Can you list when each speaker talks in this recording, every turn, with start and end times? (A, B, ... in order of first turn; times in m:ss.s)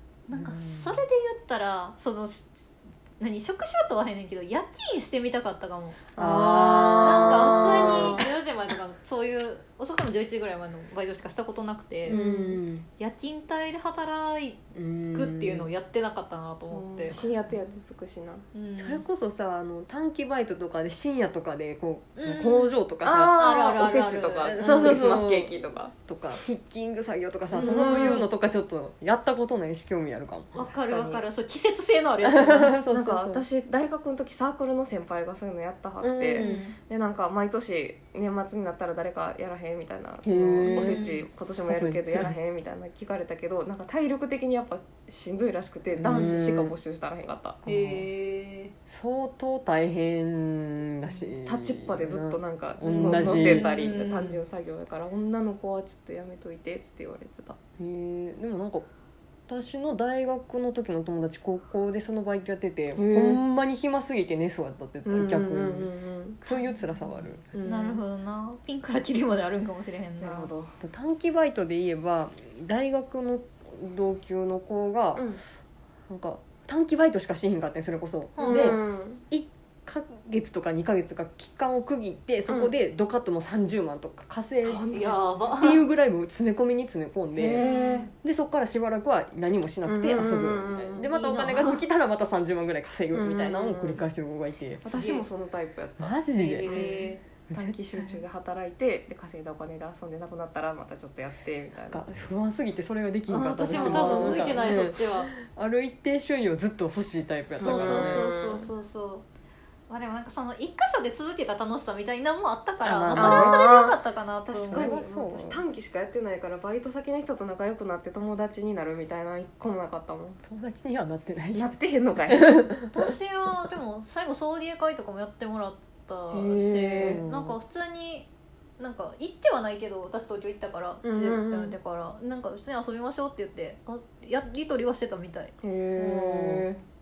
0:00.3-0:06.0 A
0:00.3-0:01.0 B
0:06.1-0:08.3 C
0:06.2-0:08.2 B
0:06.8-0:12.2 A
0:12.1-0:12.6 C
0:12.1-0:12.9 B
0:13.0-0:17.2 A
0:14.7-0:15.7 B
0:16.7-0:18.4 C
0:18.5-0:19.0 A
0:18.8-0:23.4 B
0:22.2-0:22.7 A
0:23.0-0:25.9 C
0:23.3-0:24.7 A
0:24.5-0:30.7 B
0:27.5-0:28.2 C
0:27.5-0:28.2 A
0:30.5-0:32.8 A
0:30.7-0:31.2 C
0:32.2-0:33.4 B
0:32.9-0:47.6 C
0:36.0-0:36.7 B
0:36.3-0:36.8 A
0:40.2-0:42.3 B
0:40.7-0:41.2 A
0:45.9-0:46.7 B
0:47.6-0:48.1 B
0:47.6-0:48.7 A
0:48.9-0:53.8 B
0:51.4-0:57.6 C
0:52.9-0:54.4 A
0:57.8-0:58.9 B
0:59.5-1:05.9 B
1:02.9-1:03.4 C
1:05.0-1:07.0 C
1:06.4-1:07.5 B
1:07.5-1:08.0 C
1:07.6-1:10.5 A
1:10.2-1:10.8 C
1:10.8-1:15.3 B
1:15.1-1:15.4 C
1:16.1-1:18.8 B
1:18.4-1:18.8 A
1:18.4-1:19.2 C
1:19.3-1:27.6 B
1:24.6-1:25.8 C
1:24.9-1:25.8 A
1:27.3-1:28.1 C
1:27.6-1:28.1 A
1:28.2-1:34.8 B
1:29.8-1:31.1 C
1:31.1-1:31.8 A
1:33.1-1:34.0 C
1:34.8-1:42.0 C
1:34.8-1:35.2 A
1:36.0-1:38.1 B
1:36.3-1:37.2 A
1:41.9-1:48.2 B
1:43.3-1:45.3 A
1:43.7-1:44.7 C
1:47.5-1:48.7 C
1:47.6-1:49.2 A
1:49.9-1:54.9 A
1:52.8-1:53.6 B
1:53.1-2:00.4 C
1:54.7-1:55.6 B
2:00.4-2:03.0 B
2:01.5-2:02.5 C
2:02.9-2:08.3 A
2:06.3-2:07.2 C
2:07.0-2:07.6 B
2:08.8-2:15.5 A
2:11.0-2:11.8 C
2:15.6-2:16.8 C
2:16.0-2:16.7 B